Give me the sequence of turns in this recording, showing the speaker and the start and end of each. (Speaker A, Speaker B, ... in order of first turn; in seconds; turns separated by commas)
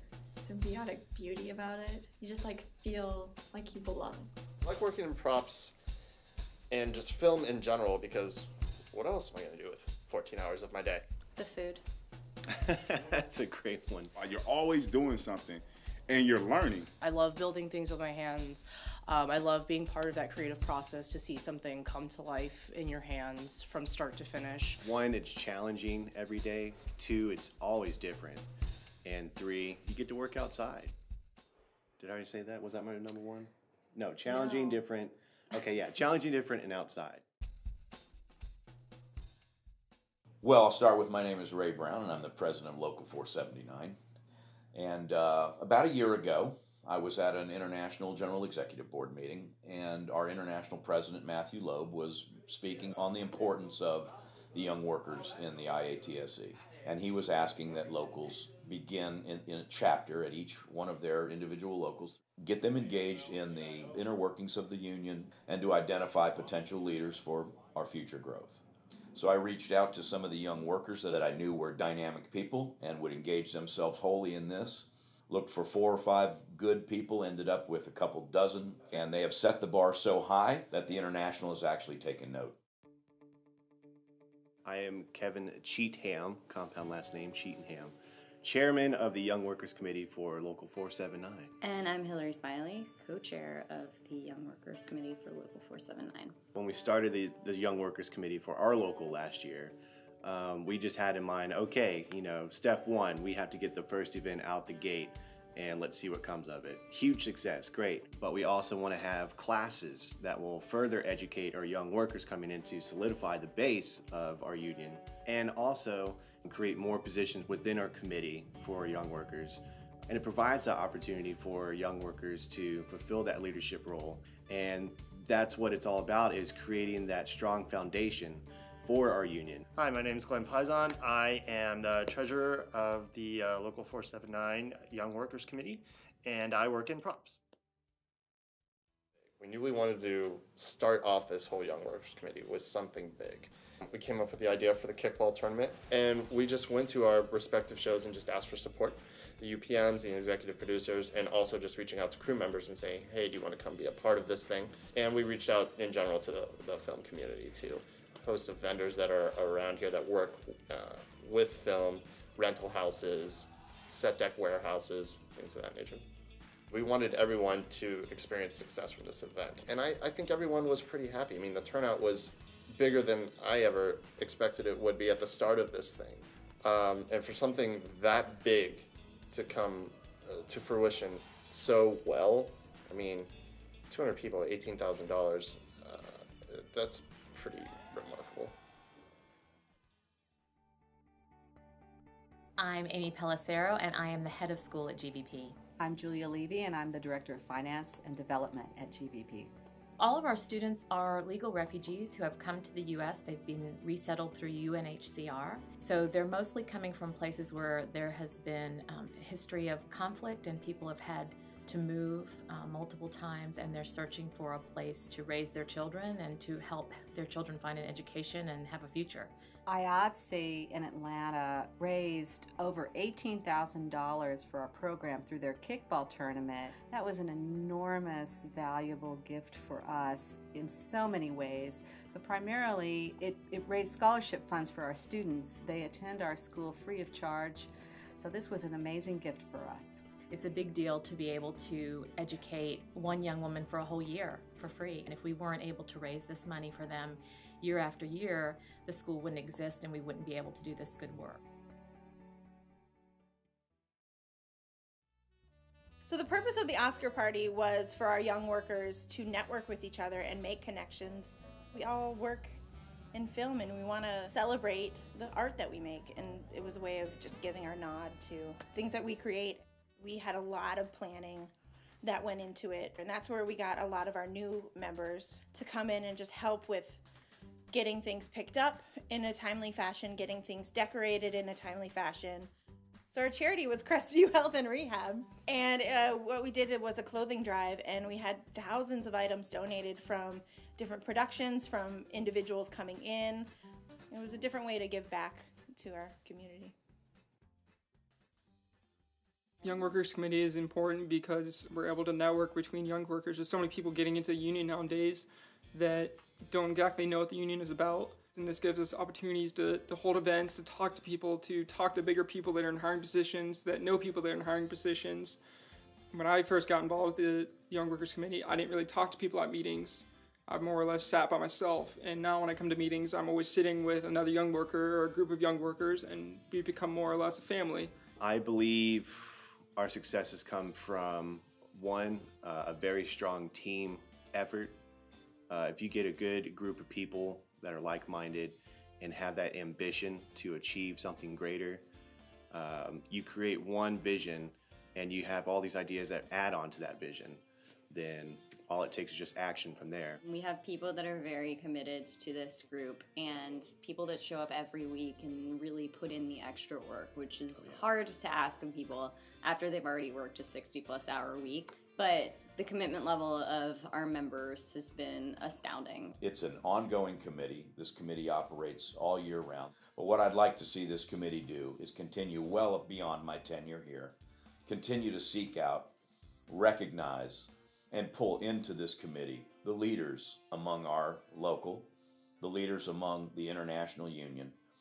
Speaker A: 0.2-4.3, Speaker B: 4.7-5.7, Speaker B: 6.7-11.0, Speaker C: 12.6-14.1, Speaker D: 14.2-15.5, Speaker D: 16.1-16.8, Speaker E: 17.0-24.8, Speaker C: 24.8-28.5, Speaker C: 29.1-30.9, Speaker C: 32.0-37.2, Speaker F: 40.4-44.0, Speaker F: 44.7-68.6, Speaker F: 69.1-82.6, Speaker C: 84.7-91.5, Speaker G: 91.6-96.4, Speaker C: 96.5-129.7, Speaker B: 129.8-137.4, Speaker B: 139.4-166.0, Speaker B: 166.7-183.3, Speaker B: 183.9-188.6, Speaker H: 192.6-195.6, Speaker I: 195.8-199.5, Speaker H: 200.0-219.3, Speaker I: 219.7-240.0, Speaker H: 240.3-251.4, Speaker J: 256.1-262.6, Speaker J: 263.1-271.5, Speaker J: 272.0-277.0, Speaker J: 277.7-282.5, Speaker J: 283.1-293.5, Speaker J: 294.1-296.8, Speaker K: 299.6-315.4, Speaker K: 316.1-327.9, Speaker C: 328.2-334.8, Speaker C: 335.5-341.9, Speaker C: 342.5-350.2, Speaker G: 350.2-366.1, Speaker F: 366.2-376.0, Speaker F: 376.5-384.6